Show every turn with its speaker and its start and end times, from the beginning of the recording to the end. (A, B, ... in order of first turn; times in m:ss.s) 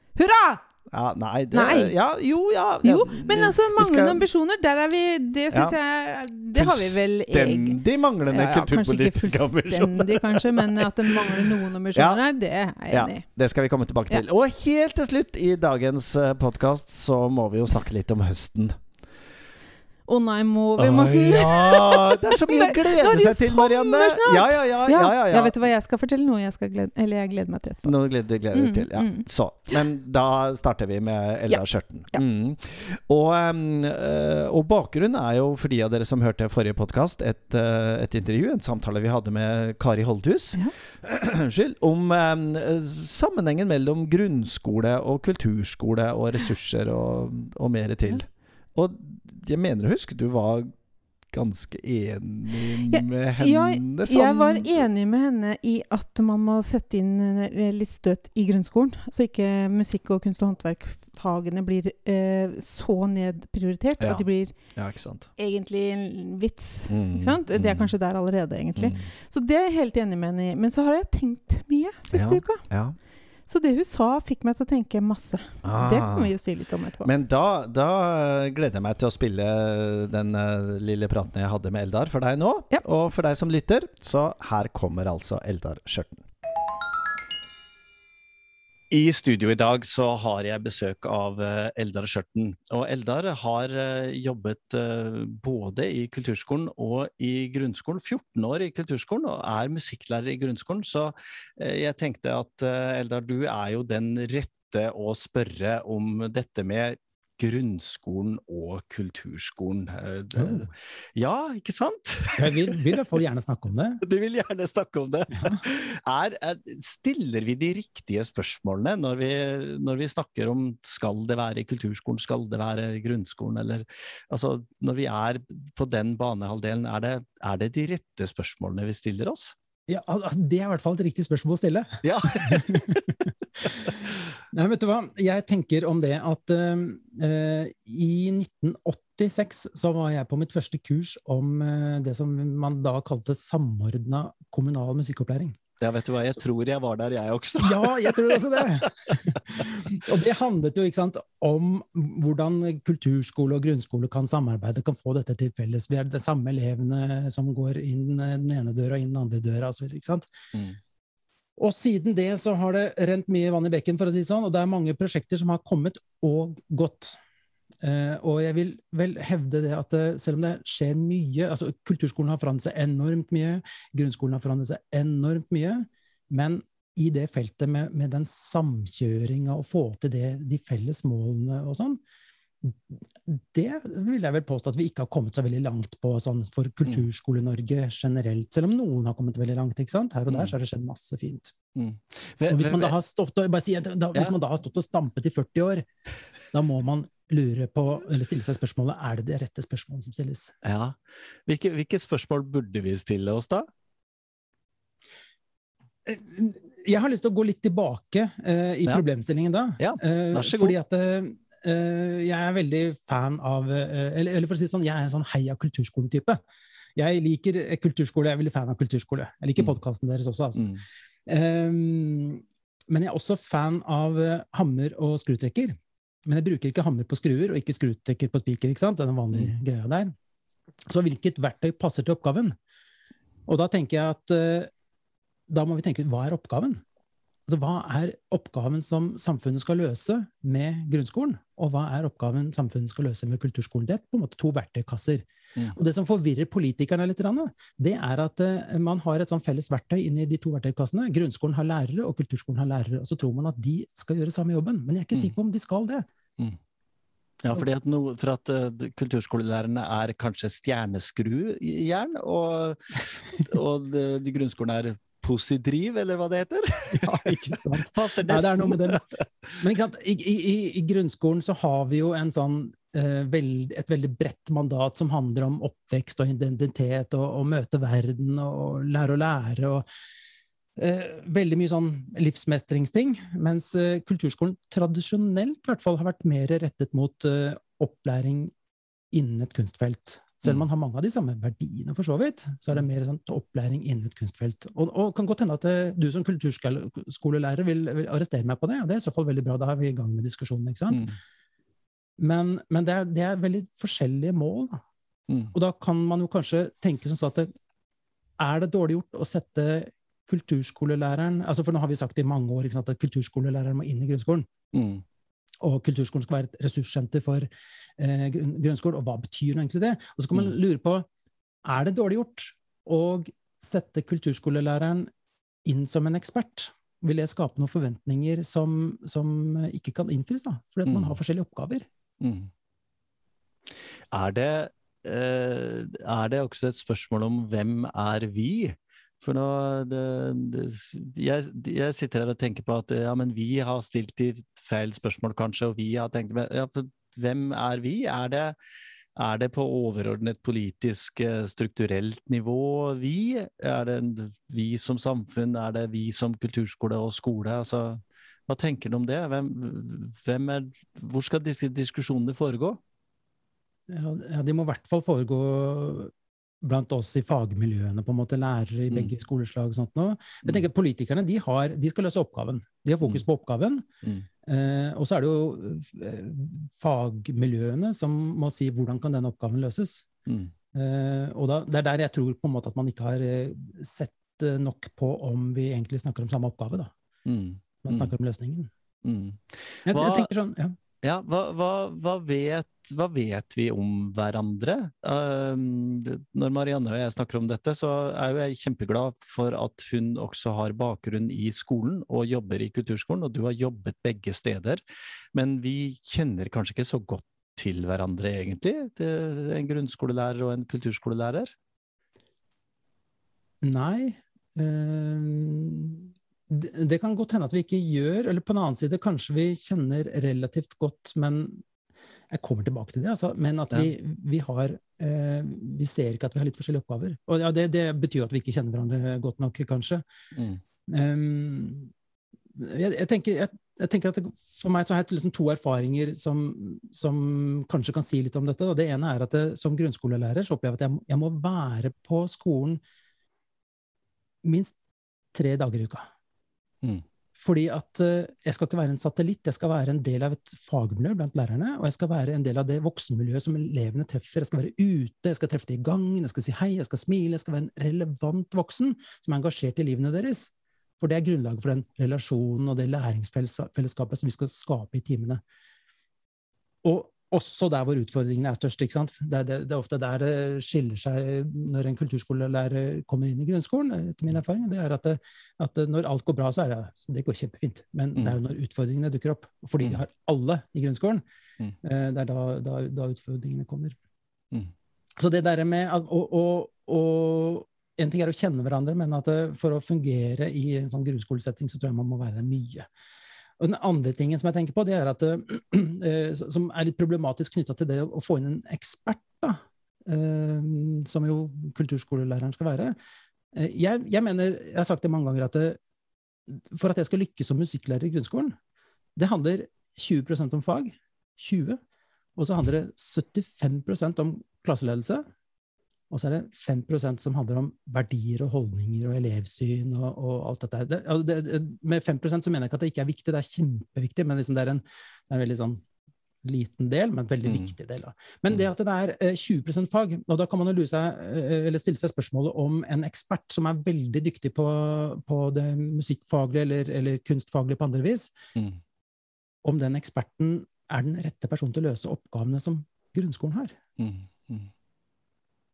0:00.2-0:00.6 A
0:00.9-0:04.2 B
0:01.5-0:01.9 A
0:02.8-0:13.2 A
0:05.5-0:05.8 B
0:06.5-0:12.2 B
0:12.9-0:18.8 B
0:20.1-0:28.0 A
0:20.8-0:25.5 B
0:27.8-0:50.7 B
0:28.5-0:29.3 A
0:51.3-0:54.8 B
0:52.9-1:04.6 A
1:04.8-1:05.3 B
1:05.4-1:12.7 A
1:06.9-1:07.9 B
1:08.8-1:09.0 B
1:12.1-1:13.0 B
1:13.5-1:17.1 A
1:15.6-1:16.3 B
1:17.0-1:26.2 B
1:28.9-1:52.8 B
1:50.4-1:50.7 C
1:52.4-1:54.0 C
1:54.0-2:09.6 B
2:09.9-2:13.9 C
2:12.0-2:13.0 B
2:13.6-2:14.0 B
2:14.5-2:25.6 C
2:25.8-2:29.2 B
2:27.6-2:40.3 C
2:41.6-2:47.2 C
2:47.8-3:02.0 C
3:02.6-3:11.5 C
3:11.8-3:13.0 B
3:12.5-3:15.9 C
3:16.5-3:20.6 C
3:20.6-3:23.7 B
3:26.0-3:36.4 C
3:29.8-3:30.8 B
3:37.0-3:40.6 C
3:40.6-3:40.8 B
3:41.3-3:50.1 C
3:50.9-3:52.6 C
3:53.5-3:54.7 C
3:55.5-3:56.8 C
3:57.5-4:16.0 C
4:17.4-4:29.6 B
4:27.0-4:29.0 C
4:29.6-4:39.9 C
4:40.8-4:48.5 C
4:49.1-5:01.1 C
5:02.2-5:04.8 C
5:05.3-5:05.5 B
5:05.5-5:07.5 C
5:08.4-5:14.5 C
5:14.7-5:15.0 B
5:15.6-5:21.1 C
5:21.6-5:25.1 C
5:25.7-5:31.9 C
5:30.9-5:31.2 B
5:32.2-5:32.5 B
5:34.1-5:48.6 B
5:49.2-6:02.8 B
6:03.9-6:13.9 C
6:14.4-6:20.1 C
6:20.3-6:20.5 B
6:20.7-6:26.9 C
6:27.2-6:28.1 B
6:27.8-6:28.7 C
6:29.0-6:30.3 B
6:29.9-6:30.8 C
6:31.0-6:44.8 B
6:45.3-6:51.6 B
6:53.6-7:01.6 C
7:02.3-7:10.0 C
7:10.4-7:10.6 B
7:10.9-7:11.9 C
7:12.6-7:22.8 C
7:24.4-7:24.8 C
7:25.3-7:26.1 C
7:27.4-7:45.4 C
7:46.8-8:01.2 C
8:01.8-8:04.0 C
8:05.2-8:12.9 C
8:13.6-8:23.0 C
8:23.5-8:25.8 C
8:26.5-8:28.6 C
8:29.2-8:31.8 C
8:32.4-8:35.2 C
8:36.1-8:45.8 C
8:46.4-8:58.3 C
8:47.4-8:47.7 B
8:59.6-9:03.8 C
9:04.0-9:04.7 B